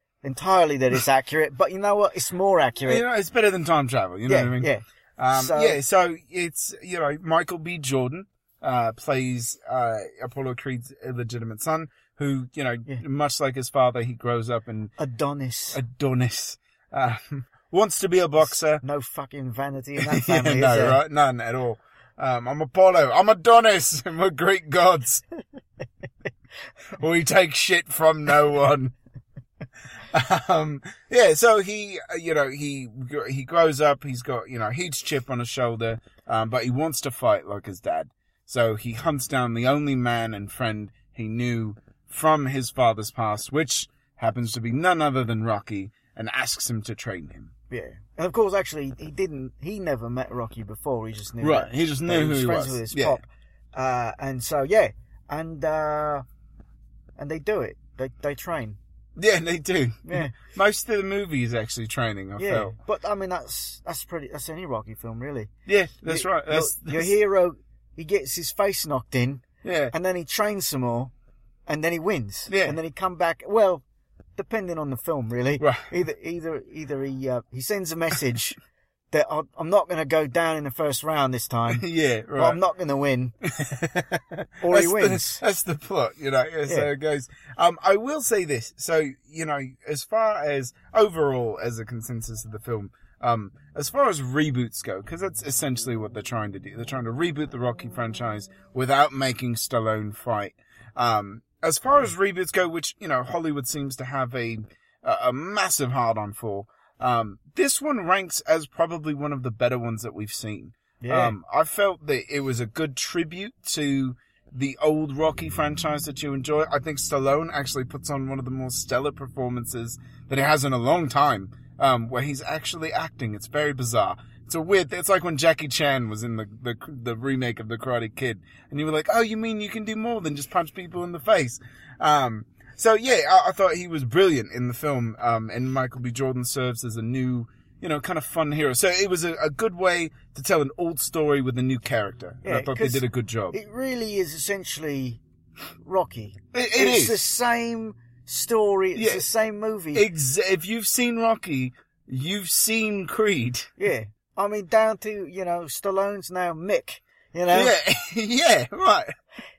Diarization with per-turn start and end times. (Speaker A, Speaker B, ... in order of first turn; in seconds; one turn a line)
Speaker A: 0.2-3.0
Speaker B: 2.8-14.9
Speaker A: 4.3-5.8
Speaker A: 15.0-15.8
Speaker B: 15.7-18.8
Speaker A: 18.8-21.0
Speaker B: 20.0-25.2
Speaker B: 26.9-28.9
Speaker B: 30.1-47.5
Speaker A: 47.7-56.2
Speaker B: 51.4-53.2
Speaker A: 57.2-58.8
Speaker B: 59.2-62.7
Speaker A: 60.0-60.4
Speaker A: 62.4-65.5
Speaker B: 65.7-67.1
Speaker A: 66.1-71.1
Speaker B: 69.6-69.9
Speaker A: 71.7-73.8
Speaker B: 72.5-72.8
Speaker A: 74.4-78.6
Speaker B: 75.6-75.9
Speaker A: 79.1-81.8
Speaker B: 81.7-82.6
Speaker A: 82.3-83.3
Speaker B: 83.4-143.6
Speaker A: 84.6-85.4
Speaker A: 111.0-111.3
Speaker A: 142.4-145.2
Speaker A: 145.8-150.1
Speaker B: 146.5-147.2
Speaker B: 148.9-149.2
Speaker B: 149.9-153.7
Speaker A: 153.8-157.7
Speaker B: 157.5-159.1